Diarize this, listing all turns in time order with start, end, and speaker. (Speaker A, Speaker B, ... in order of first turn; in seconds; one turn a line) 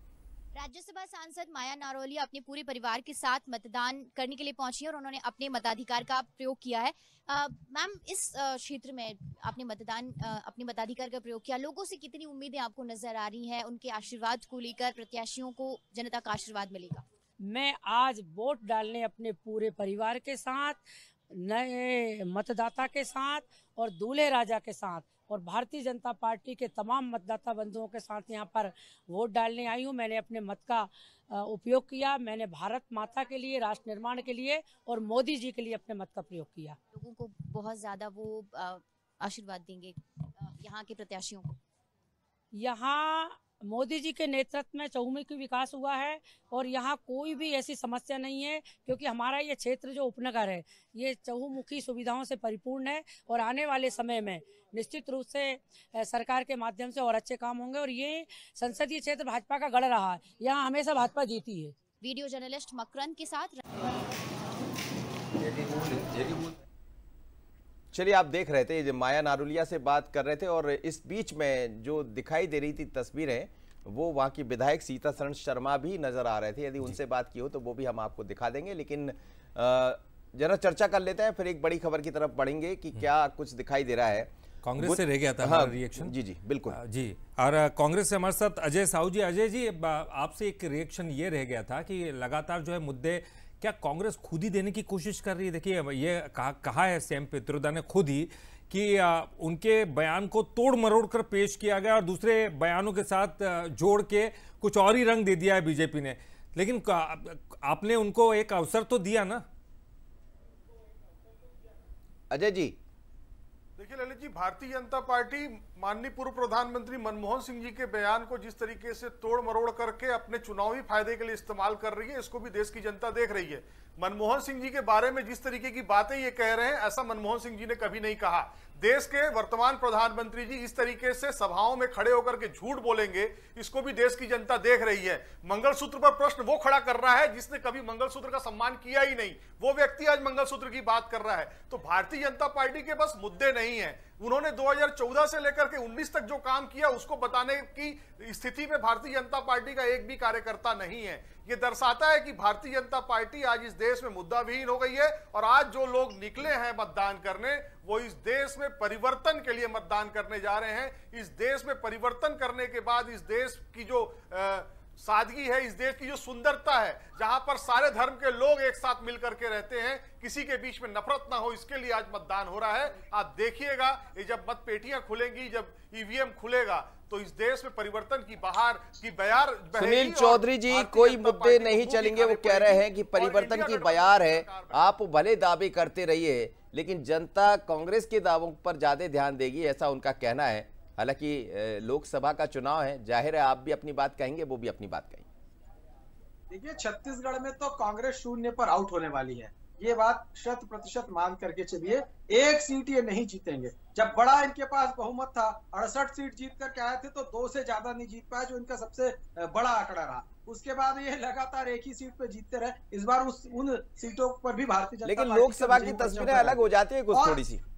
Speaker A: 0.6-17.1
Speaker B: 17.5-20.8
Speaker B: 21.4-36.8
Speaker A: 36.9-41.6
Speaker B: 42.6-61.8
Speaker A: 62.0-63.6
Speaker C: 65.6-66.4
Speaker C: 67.9-86.8
Speaker D: 84.6-86.1
Speaker D: 86.7-109.5
Speaker C: 112.3-112.8
Speaker E: 113.8-185.0
Speaker C: 179.8-195.3
Speaker F: 196.5-217.4
Speaker C: 215.0-217.6